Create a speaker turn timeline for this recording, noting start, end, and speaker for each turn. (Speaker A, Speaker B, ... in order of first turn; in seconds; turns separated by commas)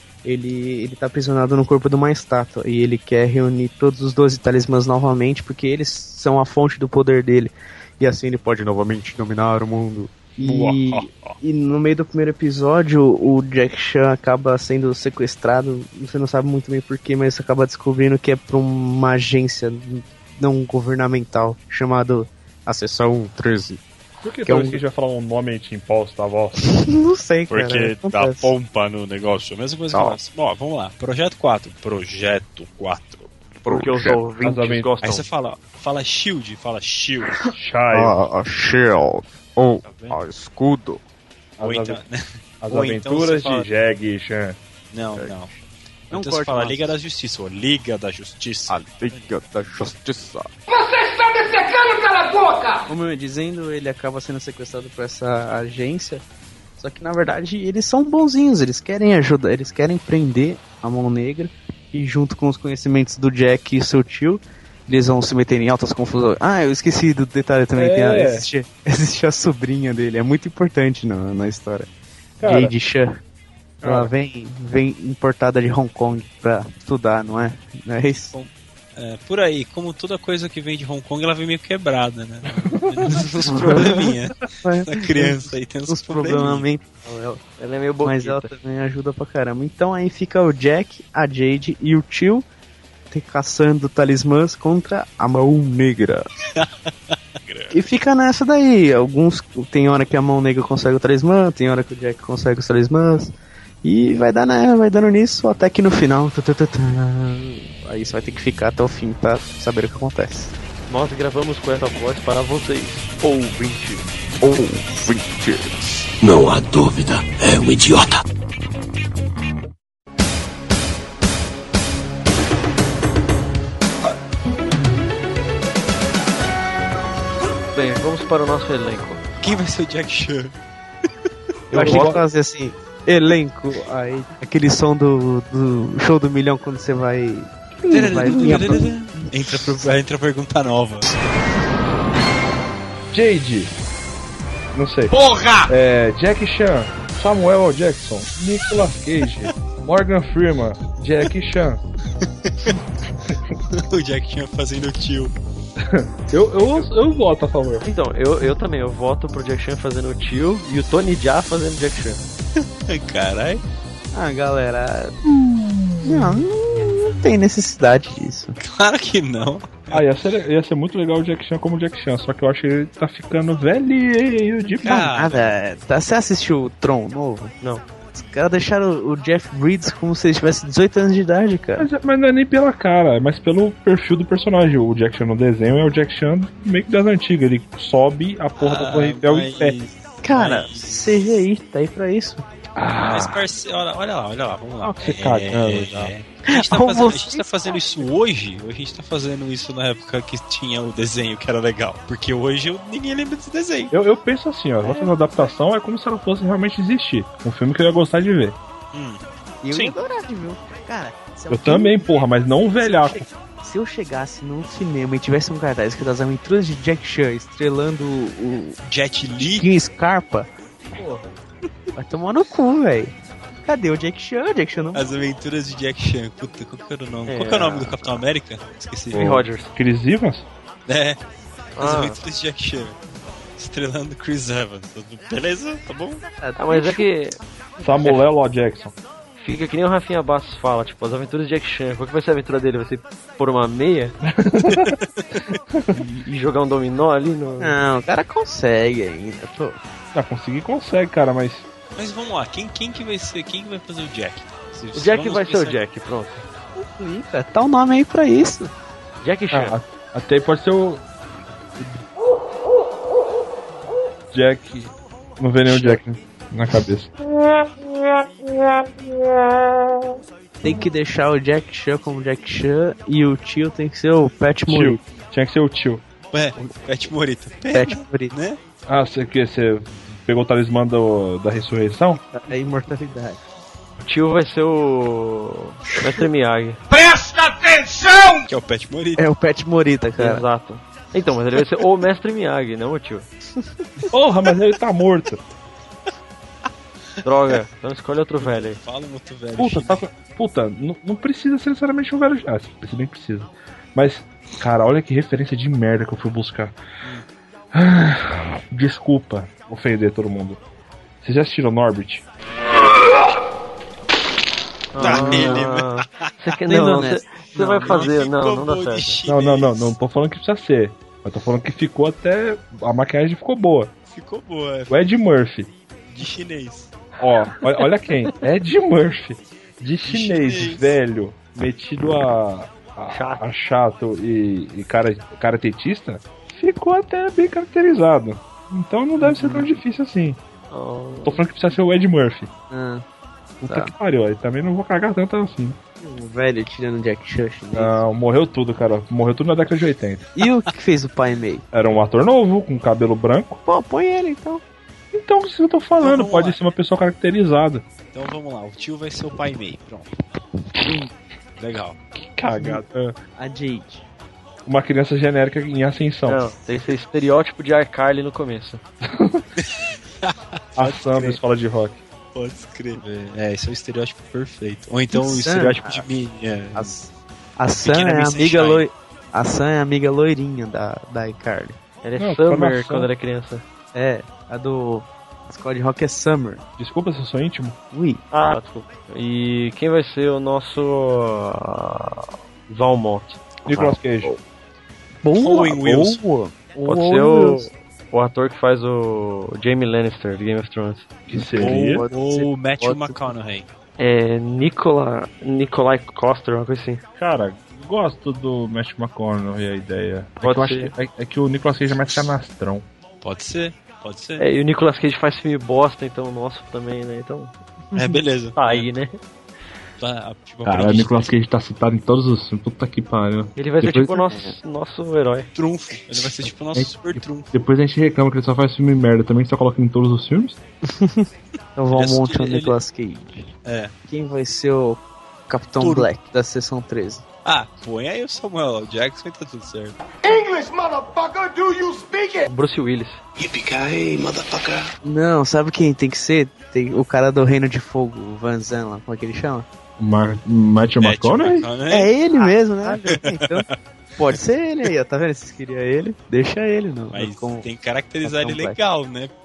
Speaker A: 0.2-23.8, Speaker B: 10.4-11.4, Speaker C: 24.2-26.6, Speaker A: 24.4-24.8, Speaker A: 26.7-28.5, Speaker B: 27.5-33.4, Speaker A: 33.7-34.2, Speaker D: 33.7-35.2, Speaker C: 34.4-34.9, Speaker B: 35.0-37.4, Speaker A: 37.4-41.0, Speaker C: 37.5-38.1, Speaker B: 39.9-40.2, Speaker C: 41.6-42.0, Speaker B: 41.6-43.7, Speaker C: 42.6-44.6, Speaker B: 44.9-45.5, Speaker A: 45.1-45.6, Speaker B: 46.1-49.4, Speaker A: 46.1-47.0, Speaker A: 48.7-50.5, Speaker E: 50.7-52.9, Speaker A: 52.9-56.2, Speaker A: 56.8-71.9, Speaker C: 67.8-68.5, Speaker C: 72.4-72.7, Speaker A: 72.4-73.2, Speaker C: 73.8-74.1, Speaker A: 73.8-78.3, Speaker B: 78.3-86.7, Speaker C: 82.7-83.2, Speaker A: 83.1-84.1, Speaker A: 84.6-87.4, Speaker D: 87.6-88.5, Speaker A: 88.0-92.5, Speaker A: 93.1-96.3, Speaker B: 97.4-97.8, Speaker A: 97.7-103.3, Speaker A: 103.8-110.5, Speaker D: 110.9-113.2, Speaker A: 113.2-116.1, Speaker F: 116.2-118.2, Speaker D: 127.7-129.2, Speaker B: 129.4-130.6, Speaker C: 131.7-132.2, Speaker D: 131.7-132.2, Speaker A: 131.7-139.8, Speaker B: 137.9-141.1, Speaker C: 143.1-143.7, Speaker C: 144.7-145.2, Speaker C: 145.7-151.8, Speaker B: 152.5-152.8, Speaker B: 153.7-155.3, Speaker C: 155.8-157.9, Speaker D: 157.8-162.2, Speaker B: 162.9-163.6, Speaker A: 164.1-165.2, Speaker C: 165.4-166.4, Speaker A: 166.0-168.6, Speaker B: 168.6-170.0, Speaker C: 169.9-175.0, Speaker B: 174.8-175.6, Speaker A: 174.8-177.5, Speaker A: 178.2-181.9, Speaker C: 181.8-189.8, Speaker B: 188.6-191.4, Speaker A: 190.2-192.4, Speaker C: 192.8-193.4, Speaker B: 193.0-203.9, Speaker C: 194.8-196.1, Speaker A: 196.5-197.8, Speaker C: 203.9-208.6, Speaker B: 208.9-210.0, Speaker A: 209.6-212.0, Speaker C: 211.5-213.3, Speaker A: 212.9-218.8, Speaker B: 218.8-219.7, Speaker A: 219.4-220.5, Speaker A: 222.0-225.1, Speaker B: 224.9-229.2, Speaker D: 227.3-228.0, Speaker D: 229.1-229.7, Speaker C: 229.1-230.5, Speaker B: 230.9-231.2, Speaker D: 231.8-232.2, Speaker B: 231.8-233.0, Speaker B: 233.6-236.2, Speaker A: 236.4-237.0, Speaker D: 236.6-237.4, Speaker C: 237.8-238.9, Speaker D: 239.4-244.2, Speaker C: 244.3-245.0, Speaker B: 244.7-245.0, Speaker D: 245.9-247.8, Speaker A: 247.6-249.8, Speaker C: 250.1-251.7, Speaker B: 252.0-255.8, Speaker D: 254.9-256.4, Speaker A: 256.8-258.7, Speaker D: 259.2-259.8, Speaker C: 259.5-261.0, Speaker C: 261.8-262.0, Speaker C: 264.3-267.1, Speaker A: 270.6-275.0, Speaker C: 274.7-276.0, Speaker B: 276.3-278.6, Speaker A: 277.7-278.3, Speaker C: 278.9-282.2, Speaker A: 282.3-283.4, Speaker D: 284.0-286.8, Speaker F: 286.9-288.5, Speaker B: 288.5-289.2, Speaker A: 289.2-290.4, Speaker D: 290.2-293.3, Speaker C: 294.1-295.4, Speaker D: 297.2-298.8, Speaker B: 298.4-300.0, Speaker C: 299.6-306.8, Speaker C: 307.7-310.6, Speaker C: 311.2-312.2, Speaker D: 314.9-319.2, Speaker B: 315.0-316.3, Speaker A: 315.0-315.5, Speaker A: 316.7-318.1, Speaker B: 317.8-319.9, Speaker C: 319.3-323.9, Speaker B: 324.1-324.9, Speaker C: 324.9-325.7, Speaker B: 326.1-326.9, Speaker C: 327.2-340.4, Speaker B: 330.1-330.8, Speaker D: 333.1-333.4, Speaker A: 339.2-339.7, Speaker D: 340.7-341.4, Speaker C: 341.2-342.5, Speaker A: 342.7-343.0, Speaker C: 343.6-345.8, Speaker A: 343.6-343.9, Speaker A: 346.0-348.0, Speaker C: 347.7-350.3, Speaker A: 350.4-351.6, Speaker C: 351.7-353.6, Speaker A: 353.7-354.6, Speaker C: 355.1-357.9, Speaker B: 356.0-356.6, Speaker B: 358.1-360.1, Speaker B: 361.6-362.0, Speaker C: 362.1-363.1, Speaker A: 363.4-364.1, Speaker C: 364.7-366.4, Speaker D: 366.3-368.8, Speaker C: 369.0-369.5, Speaker B: 369.6-371.3, Speaker C: 370.8-372.0, Speaker B: 372.3-377.0, Speaker A: 375.1-376.0, Speaker A: 376.7-381.8, Speaker B: 377.8-378.9, Speaker D: 382.0-383.6, Speaker C: 382.2-383.1, Speaker A: 383.9-386.6, Speaker C: 386.8-387.8, Speaker A: 387.9-388.2, Speaker D: 388.3-393.5, Speaker C: 393.7-394.3, Speaker A: 393.7-394.4, Speaker A: 395.2-397.7, Speaker B: 395.3-396.2, Speaker D: 396.9-401.1, Speaker C: 401.3-402.1, Speaker A: 401.4-403.3, Speaker B: 401.6-403.7, Speaker D: 404.0-407.0, Speaker C: 407.2-412.9, Speaker D: 410.4-410.9, Speaker B: 413.2-414.4, Speaker D: 414.4-417.5, Speaker B: 417.9-418.9, Speaker D: 418.6-419.2, Speaker B: 420.0-421.3, Speaker C: 420.6-424.2, Speaker D: 423.6-425.5, Speaker B: 425.6-427.5, Speaker C: 426.8-430.6, Speaker A: 430.9-433.5, Speaker B: 431.9-432.8, Speaker B: 433.7-433.9, Speaker A: 434.1-437.2, Speaker B: 435.8-436.1, Speaker B: 437.4-440.0, Speaker E: 440.2-442.5, Speaker D: 442.5-443.2, Speaker F: 443.4-444.8, Speaker E: 444.2-444.7, Speaker A: 445.0-449.7, Speaker C: 450.0-451.7, Speaker B: 451.0-452.1, Speaker A: 451.9-453.7, Speaker B: 453.1-453.7, Speaker A: 454.2-457.7, Speaker B: 457.1-459.3, Speaker A: 458.2-458.8